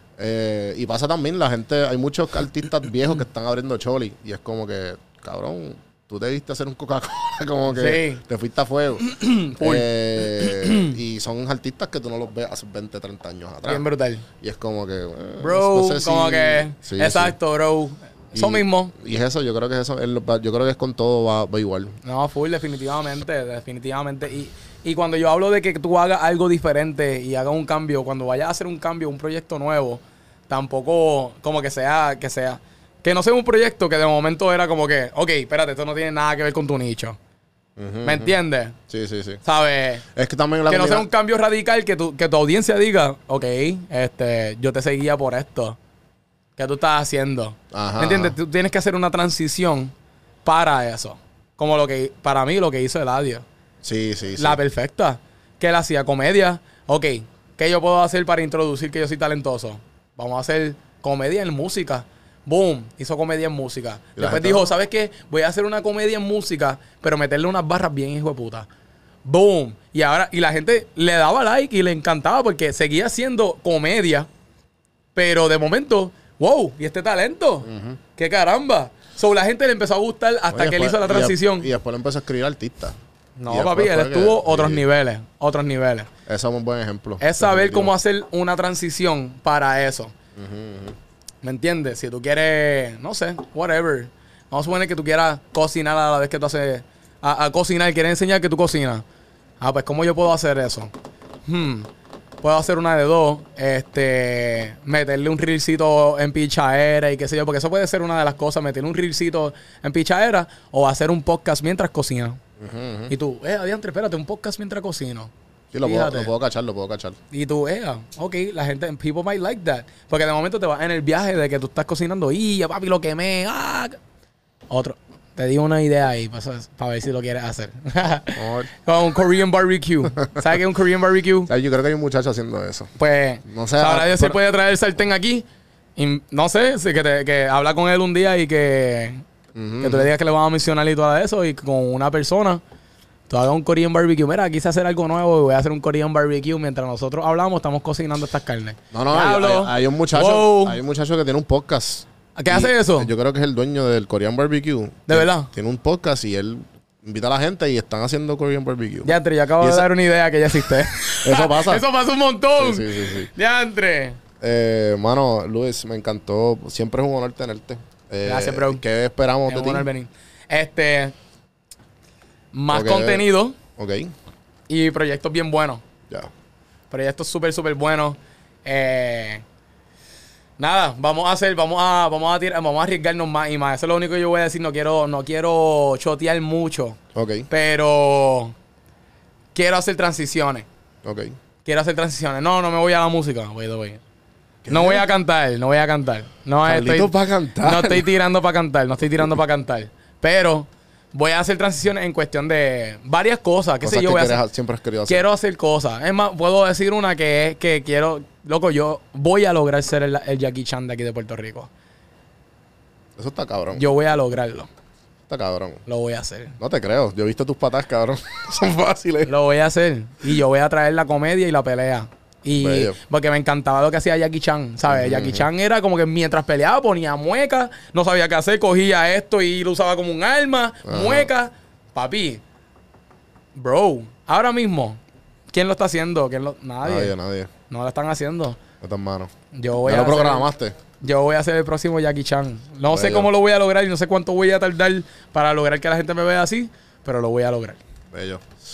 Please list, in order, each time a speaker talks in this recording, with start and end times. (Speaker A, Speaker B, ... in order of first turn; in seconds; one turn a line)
Speaker A: 0.2-13.8
Speaker B: 7.8-8.2
Speaker B: 9.0-10.9
Speaker B: 13.7-14.2
Speaker A: 14.4-17.4
Speaker B: 15.4-18.9
Speaker A: 18.3-22.0
Speaker B: 22.0-37.2
Speaker A: 37.8-38.3
Speaker B: 38.0-38.8
Speaker A: 38.9-39.4
Speaker B: 39.4-40.0
Speaker A: 40.1-41.1
Speaker B: 40.7-45.8
Speaker B: 46.6-49.9
Speaker A: 47.7-48.4
Speaker B: 50.5-53.5
Speaker A: 53.8-54.6
Speaker B: 54.4-68.7
Speaker A: 64.2-64.7
Speaker B: 69.3-74.3
Speaker B: 75.2-81.7
Speaker A: 77.7-78.0
Speaker A: 80.5-83.0
Speaker B: 83.4-86.1
Speaker A: 83.5-84.8
Speaker A: 86.3-87.9
Speaker B: 87.2-90.1
Speaker A: 90.4-91.0
Speaker B: 91.4-99.0
Speaker B: 99.6-100.9
Speaker B: 101.5-101.9
Speaker B: 102.4-112.4
Speaker A: 112.6-113.1
Speaker B: 113.1-115.3
Speaker A: 115.7-117.2
Speaker B: 115.8-116.3
Speaker B: 117.3-124.0
Speaker B: 124.7-131.5
Speaker A: 128.4-128.7
Speaker A: 131.5-132.9
Speaker B: 133.0-139.2
Speaker A: 133.4-134.4
Speaker A: 139.6-140.1
Speaker B: 139.8-142.6
Speaker B: 143.3-150.8
Speaker A: 148.9-159.9
Speaker B: 152.4-153.1
Speaker B: 155.1-155.5
Speaker B: 159.1-164.2
Speaker A: 161.2-161.9
Speaker A: 162.6-163.3
Speaker A: 164.4-169.9
Speaker B: 168.2-168.8
Speaker B: 169.5-171.2
Speaker B: 172.5-173.6
Speaker A: 172.7-174.1
Speaker B: 174.7-175.8
Speaker B: 176.9-179.4
Speaker B: 180.6-187.0
Speaker A: 187.2-187.5
Speaker B: 187.5-188.6
Speaker B: 189.6-190.7
Speaker A: 191.0-191.3
Speaker B: 191.7-194.0
Speaker A: 194.7-195.1
Speaker B: 194.7-204.4
Speaker A: 196.7-198.1
Speaker A: 203.8-205.2
Speaker B: 205.1-211.7
Speaker A: 213.2-213.8
Speaker B: 213.8-214.7
Speaker A: 215.3-215.8
Speaker B: 215.9-216.6
Speaker A: 216.6-219.3
Speaker B: 219.3-232.4
Speaker A: 222.6-223.0
Speaker A: 224.9-225.5
Speaker A: 230.8-231.3
Speaker B: 233.6-235.0
Speaker B: 235.5-237.1
Speaker A: 236.8-237.5
Speaker B: 237.7-238.6
Speaker A: 238.8-239.3
Speaker B: 239.5-247.8
Speaker A: 239.8-240.8
Speaker A: 242.9-243.3
Speaker A: 248.1-248.5